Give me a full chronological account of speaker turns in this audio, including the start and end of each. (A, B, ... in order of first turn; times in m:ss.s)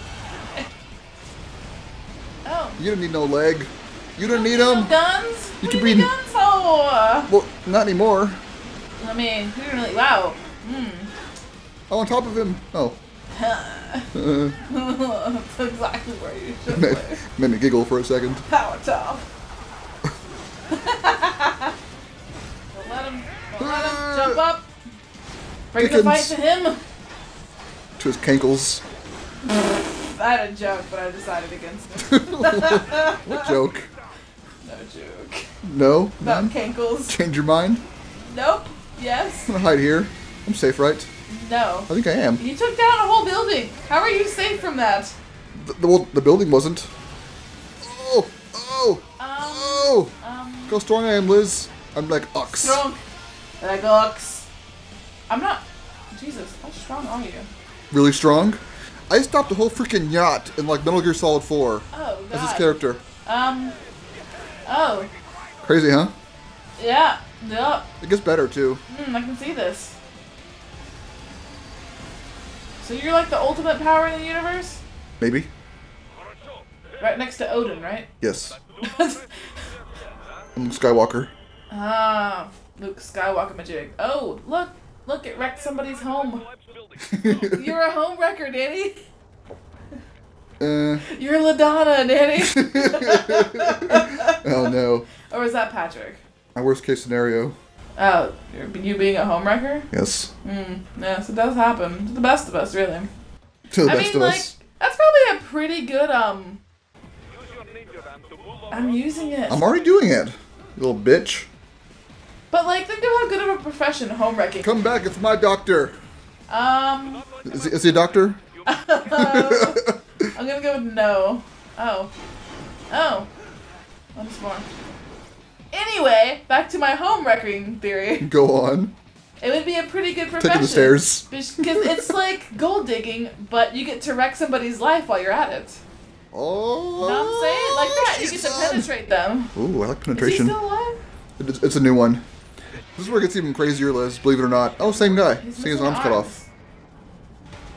0:02.4-0:02.8 A
0:02.8-0:04.9 B
0:04.3-0:07.3 A
0:05.6-0:06.1 B
0:07.3-0:08.4 B
0:09.0-0:11.1 A
0:11.9-0:13.0 B
0:13.3-0:17.2 A
0:14.1-0:14.6 B
0:16.7-0:18.5 B
0:18.5-0:19.3 A
0:20.7-0:21.7 A
0:22.7-0:24.7 A
0:23.6-0:24.4 B
0:25.7-0:26.8 A
0:25.8-0:26.4 B
0:28.0-0:28.8 B
0:29.4-0:33.6 A
0:32.0-0:33.9 B
0:34.6-0:35.5 A
0:35.6-0:36.6 B
0:36.2-0:37.2 A
0:37.1-0:37.8 B
0:38.2-0:39.5 A
0:39.5-0:41.1 B
0:41.3-0:45.1 A
0:41.9-0:42.4 B
0:45.5-0:46.9 B
0:47.8-0:50.1 B
0:49.2-0:50.8 A
0:50.7-0:52.8 B
0:52.5-0:53.0 A
0:53.6-0:54.5 A
0:55.3-0:57.5 A
0:57.9-1:03.0 B
1:01.9-1:02.7 A
1:03.2-1:03.8 A
1:04.6-1:05.1 A
1:05.6-1:06.1 B
1:06.8-1:07.9 A
1:08.0-1:08.8 B
1:08.9-1:10.0 A
1:12.8-1:14.8 A
1:15.2-1:15.5 B
1:17.0-1:18.1 A
1:18.2-1:18.6 B
1:18.8-1:19.5 A
1:20.6-1:21.3 B
1:21.7-1:26.5 A
1:27.0-1:27.6 B
1:27.2-1:29.0 A
1:30.6-1:31.0 B
1:31.0-1:34.4 A
1:32.5-1:35.1 B
1:35.3-1:36.2 A
1:36.6-1:37.6 B
1:38.0-1:39.9 A
1:39.9-1:40.3 B
1:40.4-1:43.1 A
1:43.7-1:44.5 B
1:43.8-1:46.6 A
1:48.7-1:49.6 A
1:49.5-1:51.5 B
1:52.5-1:54.8 A
1:54.6-1:56.0 B
1:56.5-1:57.2 A
1:57.4-1:58.4 B
1:58.6-2:02.1 A
1:59.1-2:00.0 B
2:02.9-2:03.3 A
2:04.2-2:04.7 A
2:05.7-2:08.3 A
2:08.2-2:08.9 B
2:09.4-2:15.8 A
2:10.4-2:12.1 B
2:16.3-2:18.9 B
2:17.0-2:19.5 A
2:19.6-2:20.6 B
2:20.1-2:21.0 A
2:21.4-2:22.2 B
2:23.0-2:26.3 B
2:25.4-2:26.5 A